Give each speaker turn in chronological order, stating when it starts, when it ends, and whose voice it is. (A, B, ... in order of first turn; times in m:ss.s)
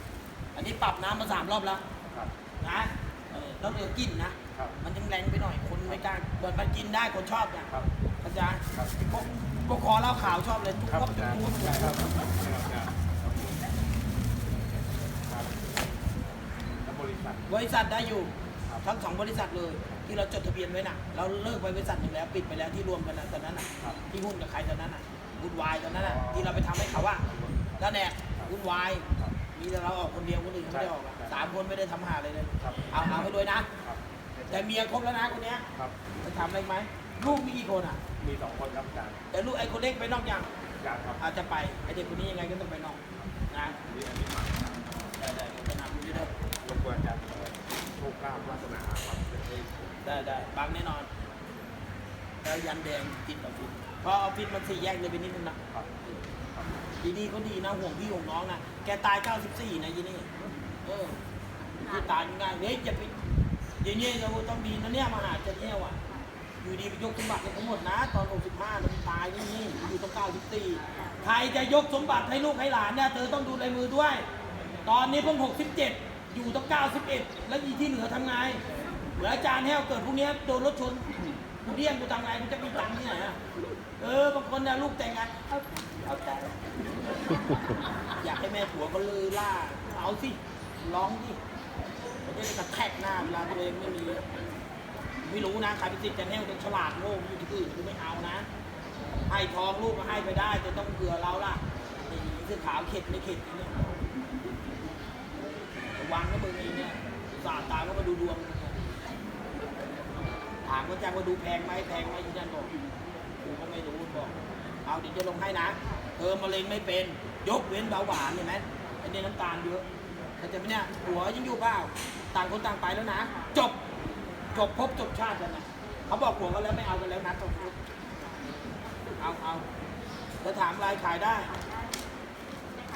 0:00.5-0:01.8 A
0:02.6-0:12.0 A
0:10.9-0:13.6 B
0:15.2-0:15.9 B
0:16.8-0:17.4 B
0:17.5-0:27.2 A
0:26.0-0:27.8 B
0:27.8-0:33.7 A
0:32.6-0:33.2 B
0:33.8-0:34.5 B
0:34.5-0:35.6 A
0:36.2-0:38.0 A
0:38.2-0:39.2 B
0:39.3-0:40.5 A
0:40.8-0:41.2 B
0:41.2-0:43.8 A
0:43.8-0:45.0 B
0:45.2-0:46.3 A
0:46.6-0:50.0 B
0:50.0-0:51.1 A
0:52.4-0:55.6 A
0:57.0-1:00.3 A
1:00.8-1:01.2 A
1:01.8-1:03.1 A
1:03.8-1:06.0 A
1:06.6-1:14.2 A
1:14.8-1:18.6 A
1:19.2-1:23.4 A
1:24.0-1:26.5 A
1:28.2-1:31.4 A
1:32.2-1:34.2 A
1:35.2-1:38.5 A
1:39.3-1:43.9 A
1:45.9-1:48.9 A
1:50.6-1:52.7 A
1:53.4-1:54.3 A
1:54.8-1:59.8 A
2:00.4-2:03.8 A
2:04.5-2:07.8 A
2:09.2-2:09.6 A
2:10.4-2:11.5 A